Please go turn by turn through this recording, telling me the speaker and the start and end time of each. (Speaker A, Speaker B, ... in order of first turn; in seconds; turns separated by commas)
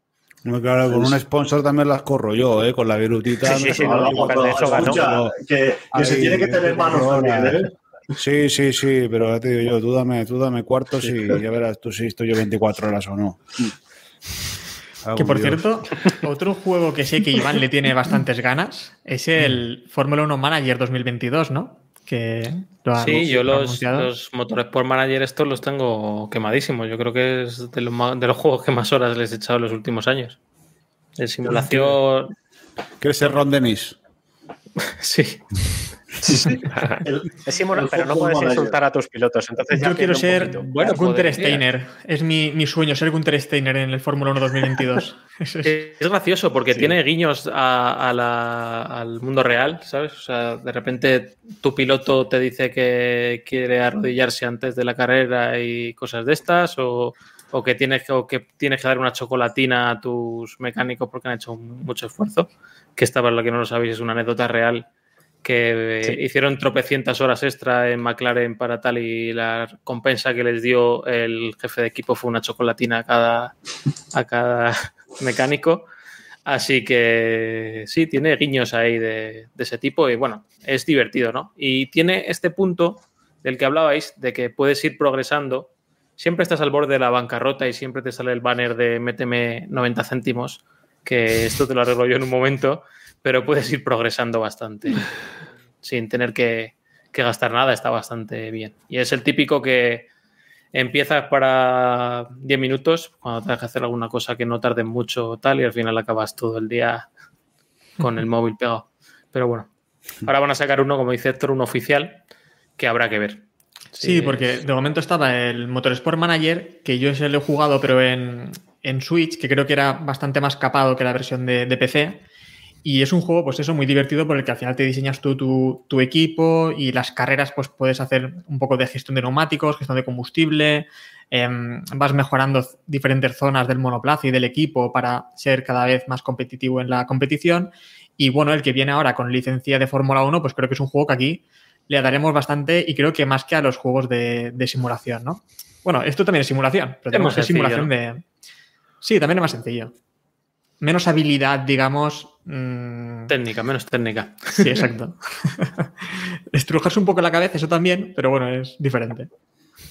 Speaker A: 0.5-5.4, Speaker B: 3.4-5.2, Speaker C: 3.7-7.7, Speaker A: 5.9-7.6, Speaker A: 8.2-13.5, Speaker A: 15.0-15.7, Speaker D: 15.2-24.1, Speaker E: 23.0-30.4, Speaker E: 31.2-32.3, Speaker C: 31.4-32.0, Speaker A: 33.0-34.0, Speaker E: 34.8-35.7, Speaker B: 36.2-40.7, Speaker C: 36.2-38.8, Speaker D: 39.7-45.7, Speaker E: 40.6-41.6, Speaker E: 45.6-64.9, Speaker E: 65.4-73.5, Speaker E: 74.1-75.9, Speaker E: 76.5-95.1, Speaker E: 95.8-100.1, Speaker E: 100.7-107.1, Speaker E: 108.0-109.7, Speaker E: 110.2-112.2, Speaker E: 112.8-114.6, Speaker D: 114.0-122.2, Speaker D: 122.8-148.2, Speaker E: 147.1-147.9, Speaker D: 149.0-149.9, Speaker D: 150.8-153.3, Speaker E: 153.3-154.8, Speaker D: 154.5-155.9, Speaker D: 156.5-159.3